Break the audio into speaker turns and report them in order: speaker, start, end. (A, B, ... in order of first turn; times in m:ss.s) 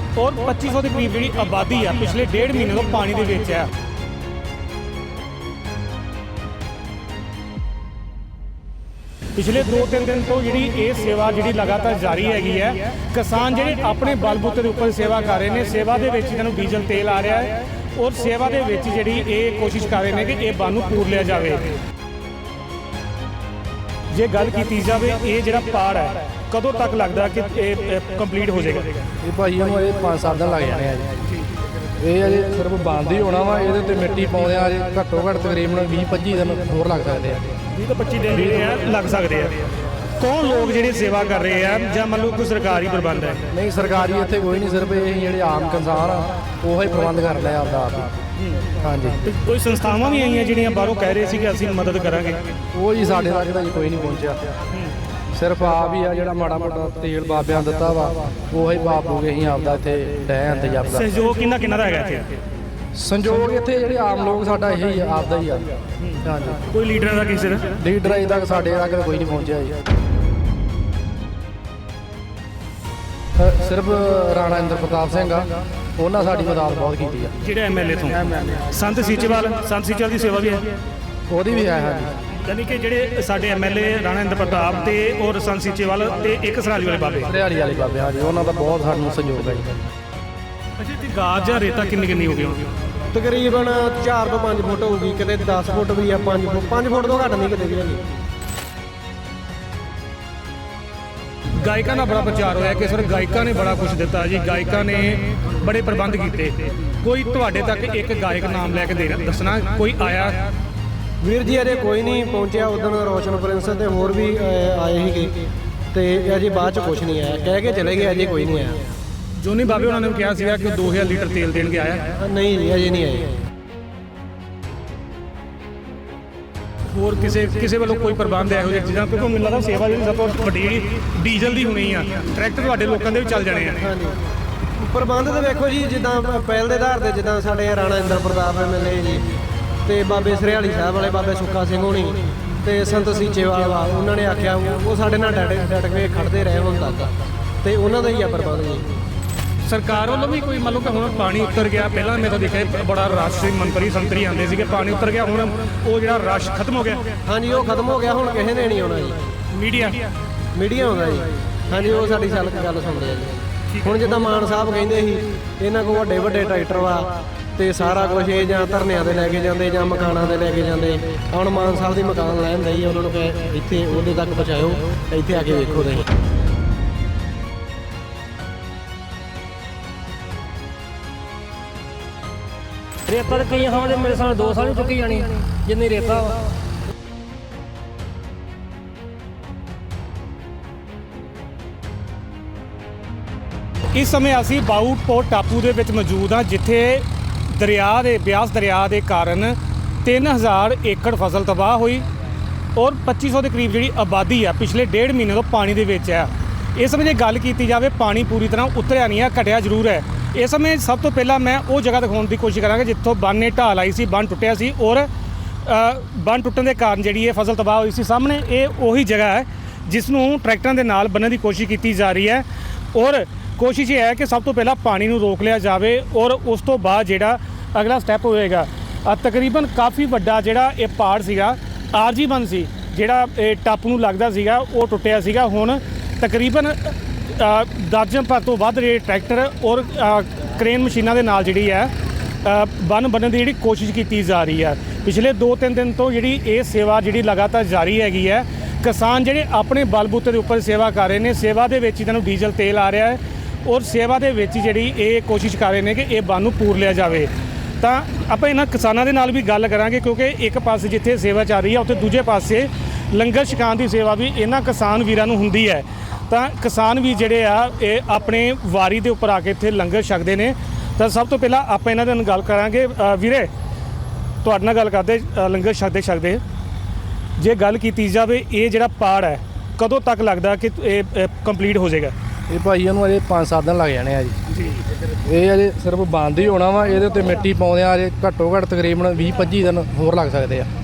0:00.2-0:03.7 A
0:09.3-0:21.8 A
0:24.1-0:29.0 A
0:29.2-0:31.2 B
0:32.0-0:37.5 B
0:37.7-0:43.5 A
0:38.3-0:38.8 B
0:43.5-0:48.2 B
0:48.4-0:48.7 A
0:48.8-0:49.2 B
0:49.2-0:52.5 A
0:52.7-0:54.6 B
0:55.3-1:01.1 B
1:00.9-1:02.4 A
1:02.9-1:06.7 B
1:06.0-1:07.8 A
1:07.8-1:09.8 B
1:13.4-1:17.3 B
1:17.4-1:20.8 A
1:21.3-1:22.2 B
1:22.3-1:27.4 A
1:27.3-1:29.8 B
1:30.8-1:32.7 A
1:33.1-1:38.0 C
1:41.5-1:50.5 A
1:51.2-1:58.9 C
1:59.4-2:02.0 A
2:02.1-2:03.4 C
2:06.9-2:13.9 A
2:13.7-2:14.2 C
2:14.8-2:27.1 C
2:27.6-2:28.9 C
2:29.6-2:37.2 A
2:37.3-2:39.3 C
2:39.5-2:40.1 A
2:40.5-2:56.1 C
2:43.7-2:44.1 A
3:03.1-3:06.4 D
3:13.9-3:22.0 A
3:22.7-3:35.1 A
3:35.6-4:01.9 A
4:02.4-4:33.5 A
4:34.4-4:36.4 A
4:37.4-4:42.1 A
4:42.5-4:44.4 B
4:44.5-4:44.8 A
4:45.2-4:50.7 B